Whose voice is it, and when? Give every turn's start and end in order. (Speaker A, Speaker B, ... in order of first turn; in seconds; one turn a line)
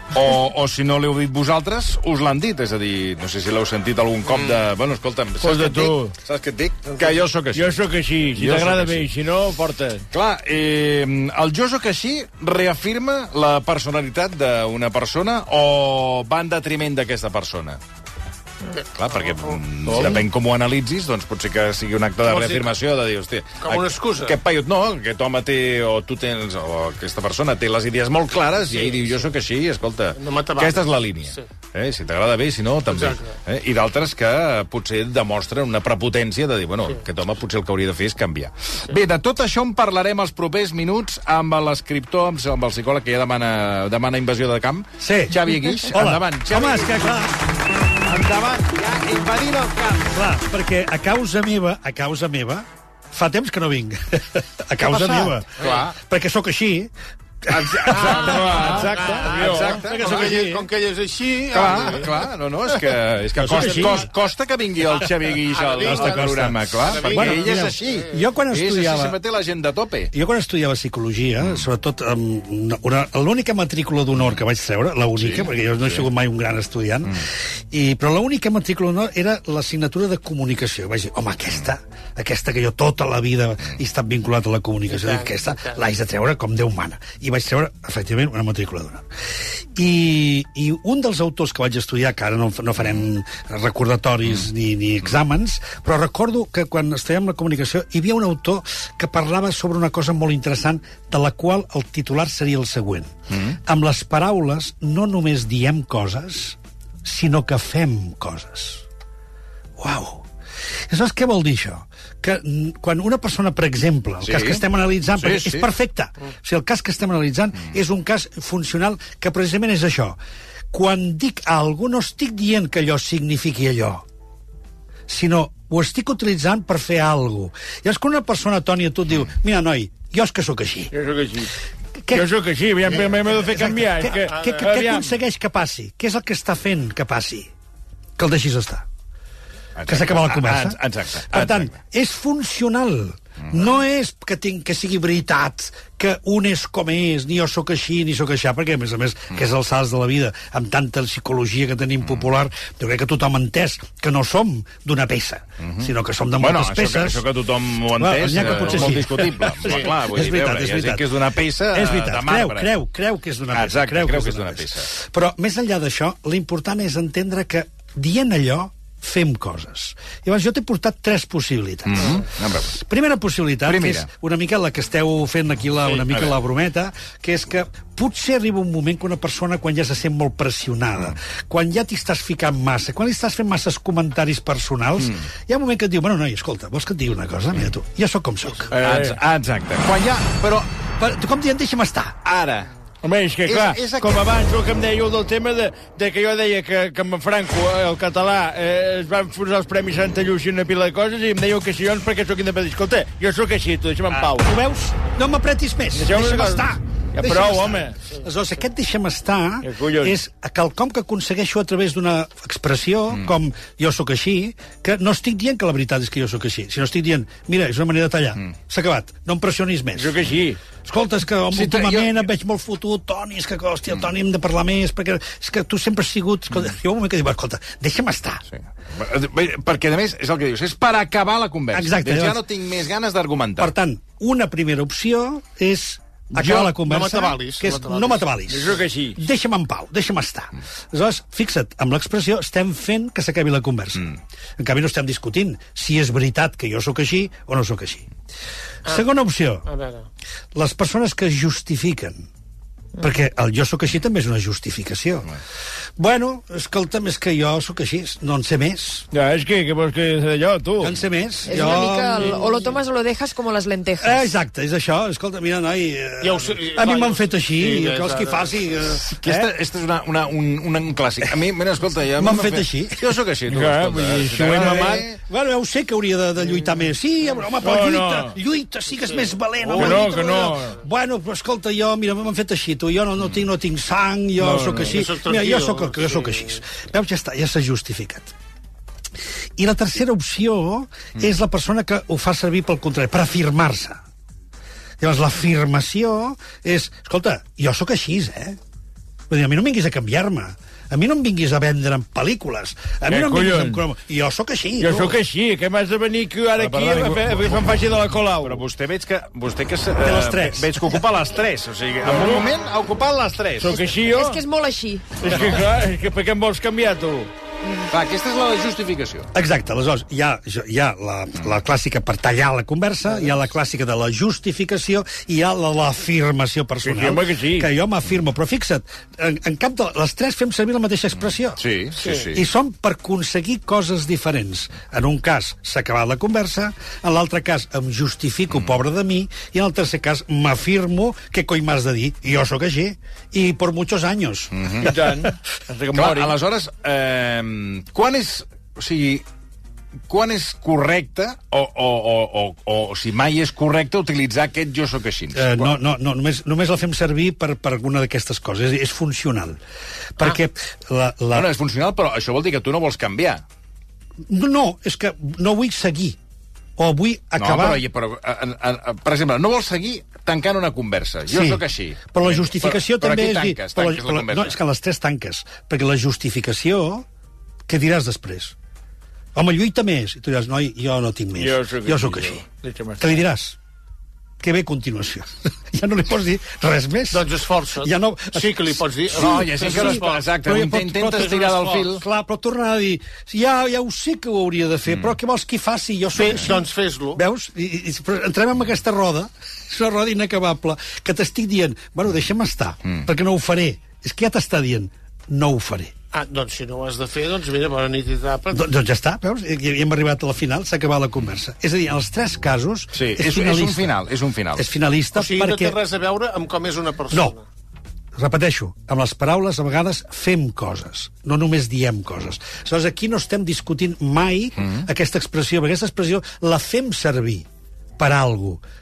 Speaker A: 0.1-7.8
Speaker B: 5.4-6.1
Speaker B: 7.5-10.0
Speaker A: 8.3-9.1
Speaker A: 10.1-17.8
Speaker C: 18.7-19.6
Speaker A: 18.9-47.3
Speaker B: 19.9-20.2
Speaker C: 22.2-22.7
Speaker C: 23.6-24.4
Speaker C: 28.7-29.3
Speaker C: 30.2-31.5
Speaker C: 32.9-33.4
Speaker D: 45.0-47.4
Speaker A: 48.0-50.1
Speaker D: 50.1-56.9
Speaker A: 54.9-55.9
Speaker D: 57.4-58.6
Speaker A: 57.5-60.3
Speaker C: 57.9-62.3
Speaker B: 58.2-60.4
Speaker D: 60.0-60.6
Speaker A: 61.5-70.1
Speaker B: 63.4-64.0
Speaker D: 63.4-64.0
Speaker C: 65.2-68.2
Speaker D: 65.8-69.2
Speaker D: 70.1-89.0
Speaker A: 75.2-76.0
Speaker C: 84.9-85.8
Speaker D: 89.8-108.8
Speaker A: 103.3-103.6
Speaker D: 109.8-110.3
Speaker D: 110.9-120.2
Speaker A: 114.2-114.6
Speaker A: 115.2-115.7
Speaker D: 120.7-124.0
Speaker D: 125.1-130.9
Speaker B: 130.9-131.5
Speaker D: 132.1-132.3
Speaker B: 132.1-135.2
Speaker D: 133.3-137.5
Speaker C: 134.3-134.7
Speaker D: 138.2-138.9
Speaker A: 139.8-141.7
Speaker D: 139.9-140.8
Speaker D: 141.3-157.3
Speaker A: 155.6-162.7
Speaker D: 158.0-188.7
Speaker A: 163.5-164.9
Speaker A: 171.9-172.8
Speaker A: 173.7-174.1
Speaker A: 176.1-176.4
Speaker A: 185.0-185.2
Speaker B: 188.7-189.2
Speaker A: 188.7-190.7
Speaker D: 191.0-192.2
Speaker A: 192.2-192.7
Speaker B: 193.0-204.5
Speaker A: 193.5-194.2
Speaker D: 204.3-220.2
Speaker B: 205.9-208.0
Speaker B: 209.6-210.2
Speaker B: 220.0-220.6
Speaker D: 220.8-228.4
Speaker A: 221.5-222.3
Speaker A: 228.6-233.7
Speaker D: 231.7-232.4
Speaker D: 233.6-244.1
Speaker A: 236.3-236.8
Speaker C: 236.8-238.3
Speaker B: 238.5-239.2
Speaker D: 244.6-248.1
Speaker D: 248.9-249.7
Speaker C: 249.7-250.1
Speaker D: 250.5-252.3
Speaker D: 253.0-255.3
Speaker D: 256.0-259.1
Speaker B: 259.1-260.9
Speaker D: 260.8-262.5
Speaker E: 261.5-264.3
Speaker C: 261.5-262.8
Speaker D: 264.0-269.5
Speaker C: 266.2-269.0
Speaker A: 269.2-275.2
Speaker D: 272.2-273.2
Speaker B: 273.5-275.1
Speaker D: 274.5-288.3
Speaker B: 277.6-278.4
Speaker C: 279.0-280.2
Speaker B: 279.7-280.8
Speaker B: 284.4-285.0
Speaker C: 284.8-286.7
Speaker D: 289.6-294.0
Speaker D: 295.0-298.6
Speaker D: 299.3-305.2
Speaker B: 303.1-303.8
Speaker B: 304.8-308.6
Speaker A: 306.6-313.8
Speaker D: 310.0-311.0
Speaker B: 312.0-312.5
Speaker B: 313.6-314.4
Speaker E: 313.7-315.1
Speaker B: 315.2-317.3
Speaker A: 315.3-315.6
Speaker A: 317.9-319.3
Speaker D: 319.3-331.6
Speaker B: 326.8-327.7
Speaker A: 331.6-332.5
Speaker C: 332.0-332.3
Speaker D: 332.3-345.3
Speaker A: 344.5-344.9
Speaker B: 344.8-346.4
Speaker A: 345.9-349.2
Speaker A: 350.1-355.7
Speaker D: 355.3-359.6
Speaker D: 360.2-361.5
Speaker A: 361.3-363.4
Speaker D: 364.3-366.2
Speaker D: 366.8-367.8
Speaker A: 367.4-374.6
Speaker D: 371.3-377.1
Speaker D: 377.7-378.6
Speaker D: 379.3-382.4
Speaker B: 381.4-383.0
Speaker D: 383.0-383.6
Speaker D: 384.4-387.3
Speaker C: 387.1-390.3
Speaker D: 387.8-396.6
Speaker A: 389.1-392.0
Speaker C: 391.1-391.9
Speaker C: 396.2-397.2
Speaker D: 397.1-405.9
Speaker C: 406.1-408.7
Speaker D: 408.5-413.9
Speaker A: 412.9-414.7
Speaker D: 414.6-415.8
Speaker C: 415.1-417.4
Speaker D: 418.2-427.5
Speaker D: 428.0-428.6